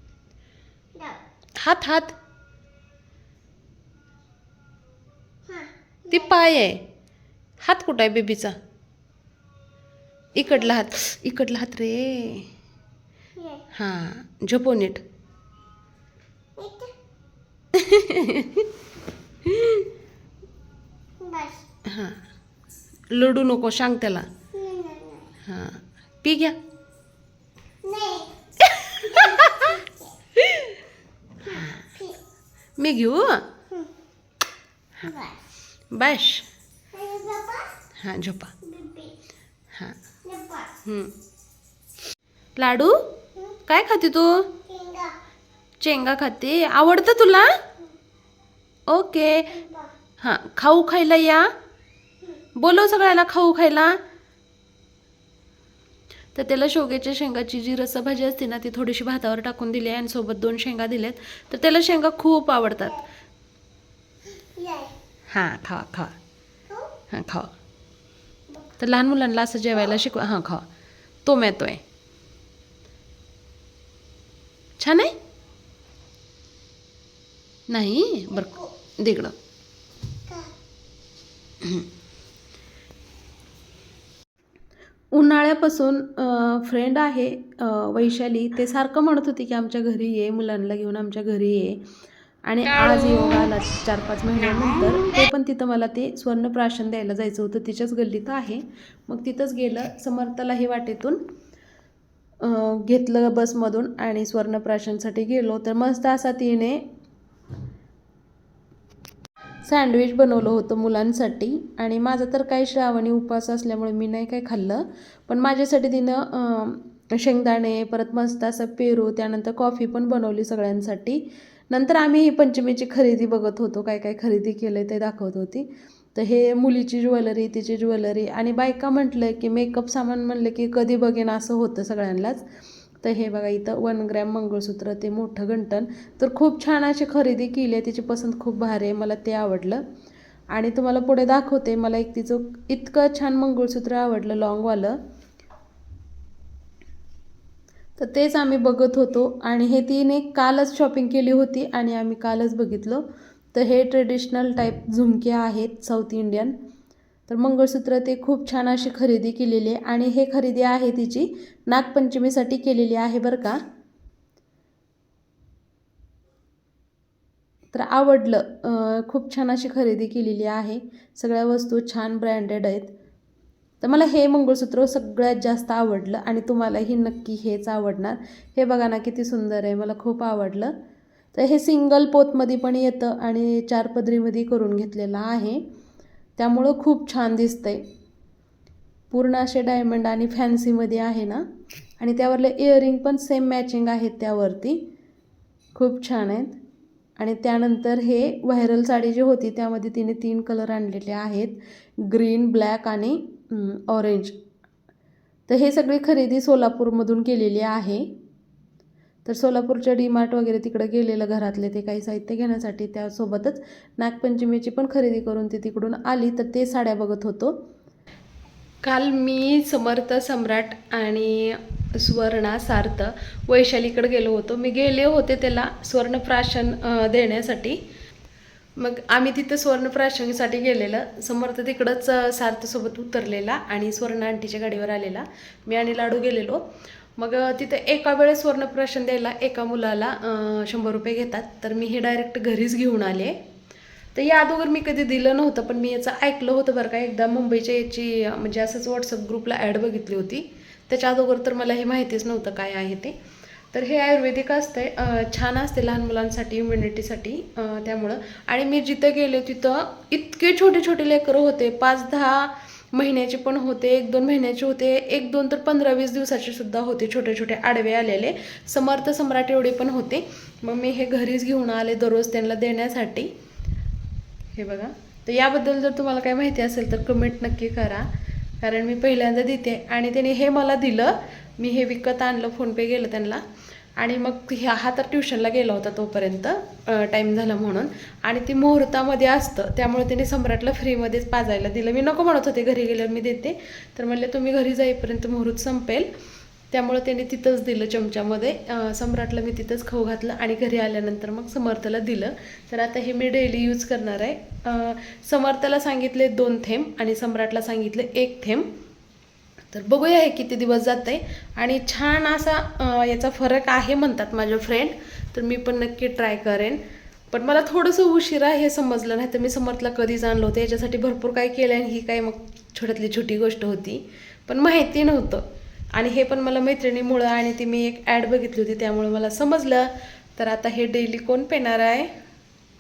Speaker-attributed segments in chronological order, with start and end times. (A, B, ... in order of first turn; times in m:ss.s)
0:01.0-0:01.2 A
0:01.6-0:02.1 B
0:05.5-0:06.4 A
0:06.1-0:06.8 B
0:07.6-0:08.6 B
0:10.4-0:12.5 B
0:10.4-0:10.7 A
0:13.4-0:13.6 A
0:13.7-0:15.0 B
0:16.6-0:16.9 A
0:17.7-0:18.7 B
0:19.4-0:19.9 B
0:21.2-0:21.6 A
0:21.9-0:22.2 B
0:23.1-0:24.3 B
0:24.5-0:25.3 A
0:25.4-0:26.6 B
0:27.8-0:28.3 A
0:28.6-0:29.7 B
0:29.0-0:30.1 A
0:30.4-0:30.7 B
0:31.4-0:32.2 A
0:31.5-0:31.9 B
0:32.8-0:33.5 B
0:35.0-0:35.4 A
0:35.9-0:36.5 B
0:36.9-0:37.7 A
0:38.0-0:38.5 B
0:38.6-0:39.2 A
0:40.2-0:40.8 A
0:40.8-0:41.1 B
0:42.6-0:43.0 B
0:43.6-0:44.6 B
0:44.7-0:45.1 A
0:45.8-0:47.5 B
0:48.9-0:49.5 B
0:49.5-0:49.9 A
0:50.2-0:51.5 B
0:52.6-0:54.0 B
0:56.4-1:03.0 B
1:04.4-1:04.9 A
1:05.3-1:06.2 B
1:06.7-1:06.9 A
1:07.1-1:07.5 B
1:08.8-1:10.6 B
1:11.2-1:11.8 B
1:14.8-1:15.2 B
1:17.7-1:19.3 B
1:18.4-1:18.7 A
1:25.1-1:31.8 B
1:32.5-1:41.2 B
1:42.4-1:46.8 B
1:49.6-2:12.4 B
2:13.0-2:19.8 B
2:20.5-2:25.0 B
2:28.0-2:36.6 B
2:37.3-2:43.6 B
2:47.7-2:52.9 B
2:53.8-3:00.7 B
3:01.3-3:05.6 B
3:06.4-3:07.8 B
3:09.1-3:11.4 B
3:12.0-3:14.8 B
3:15.8-3:16.6 B
3:17.2-3:24.4 B
3:25.5-3:28.1 B
3:29.2-3:37.6 B
3:38.8-3:47.8 B
3:48.8-3:56.6 B
3:57.2-4:03.4 B
4:04.2-4:13.2 B
4:13.7-4:33.3 B
4:34.6-4:38.1 B
4:38.6-4:43.4 B
4:44.0-4:56.1 B
4:56.7-5:08.7 B
5:09.7-5:25.4 B
5:26.0-5:32.1 B